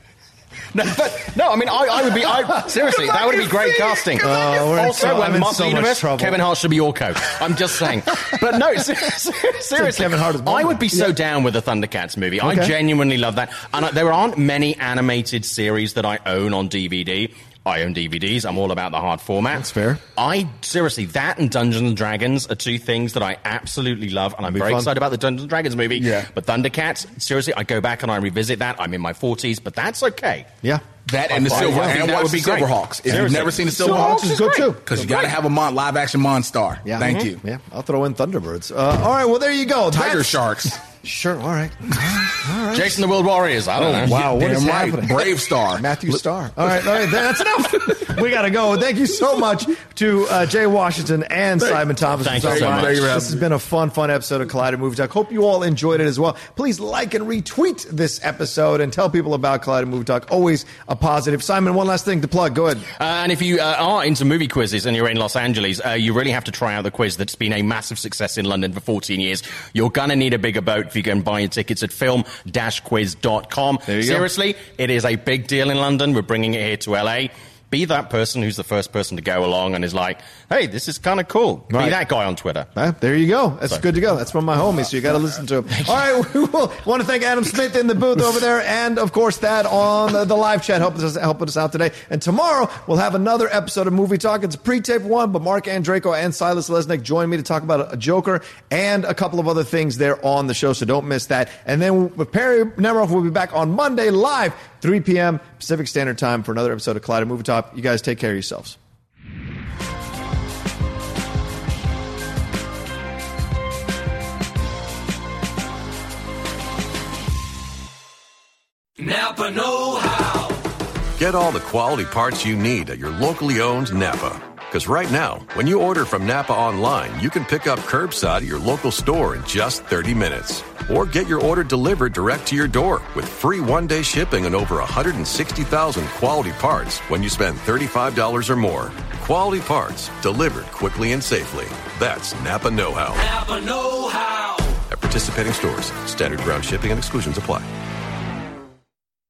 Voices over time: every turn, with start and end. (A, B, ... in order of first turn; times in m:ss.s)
0:00.7-0:30.5 A
0:02.4-0:03.6 B
0:04.1-0:06.4 B
0:09.8-0:11.1 B
0:12.4-0:12.7 B
0:19.5-0:20.0 B
0:24.4-0:24.9 B
0:25.9-0:26.3 C
0:30.6-0:32.0 B
0:31.1-0:37.4 C
0:31.4-0:34.7 A
0:33.2-0:35.2 B
0:36.8-0:43.0 B
0:37.0-0:37.3 A
0:39.9-0:40.8 C
0:42.7-0:44.2 A
0:43.8-1:02.9 B
0:44.0-0:45.8 C
0:51.6-0:53.4 C
0:52.2-0:53.0 A
1:03.0-1:22.7 A
1:13.9-1:14.3 B
1:21.7-1:22.0 B
1:22.7-1:48.8 B
1:59.0-2:00.6 D
2:01.2-2:23.2 E
2:23.2-2:24.8 D
2:24.9-2:27.7 E